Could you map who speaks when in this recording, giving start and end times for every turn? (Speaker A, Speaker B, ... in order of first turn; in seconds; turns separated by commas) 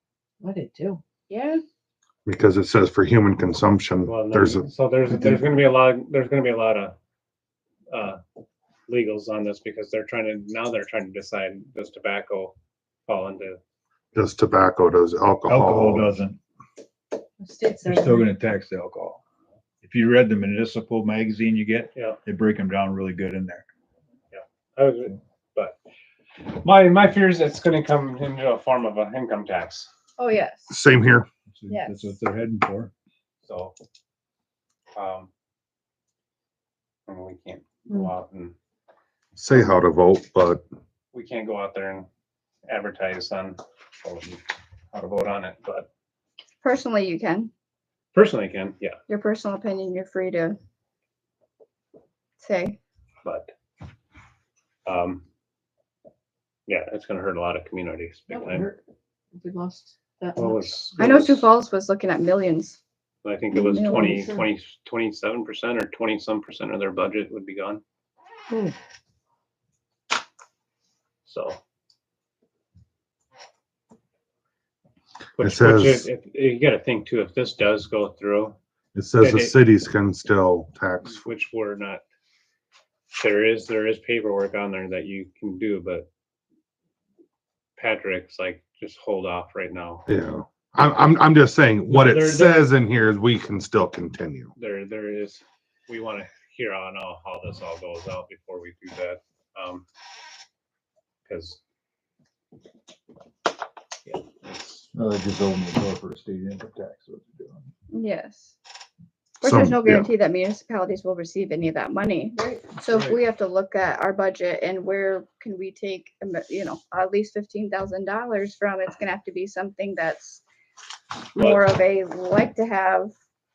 Speaker A: 0.4-1.0, Speaker B: 1.3-1.6, Speaker C: 2.2-4.7, Speaker D: 4.0-7.0, Speaker D: 7.9-8.2, Speaker D: 8.9-12.6, Speaker D: 13.1-13.6, Speaker C: 14.1-16.1, Speaker E: 15.5-16.4, Speaker A: 17.4-18.3, Speaker E: 17.8-19.2, Speaker E: 19.8-23.6, Speaker D: 21.9-22.2, Speaker D: 24.3-25.8, Speaker D: 26.4-29.9, Speaker B: 30.2-30.7, Speaker C: 30.7-31.3, Speaker E: 31.5-32.9, Speaker B: 31.7-32.1, Speaker D: 33.4-33.7, Speaker D: 34.9-35.3, Speaker D: 37.1-38.5, Speaker C: 39.4-40.6, Speaker D: 41.1-42.1, Speaker D: 42.7-45.9, Speaker B: 46.6-47.5, Speaker D: 48.1-49.0, Speaker B: 49.1-50.6, Speaker B: 52.4-52.8, Speaker D: 53.2-53.5, Speaker D: 54.9-55.2, Speaker D: 56.7-58.7, Speaker A: 58.3-58.8, Speaker A: 59.3-60.8, Speaker D: 60.4-61.5, Speaker B: 61.0-62.8, Speaker D: 63.2-67.8, Speaker A: 63.6-64.5, Speaker B: 63.6-64.3, Speaker D: 71.2-71.6, Speaker D: 75.3-78.6, Speaker C: 75.4-76.1, Speaker C: 78.9-81.2, Speaker D: 79.2-79.6, Speaker D: 81.0-82.0, Speaker D: 83.1-86.1, Speaker D: 87.8-90.1, Speaker C: 90.1-94.5, Speaker D: 91.9-92.7, Speaker D: 94.5-99.8, Speaker D: 101.2-101.6, Speaker D: 104.0-104.8, Speaker E: 104.9-107.7, Speaker B: 107.9-108.6, Speaker C: 109.4-110.1, Speaker B: 109.4-120.4, Speaker A: 112.3-112.7, Speaker E: 112.8-113.2, Speaker B: 121.3-123.1, Speaker D: 121.3-121.7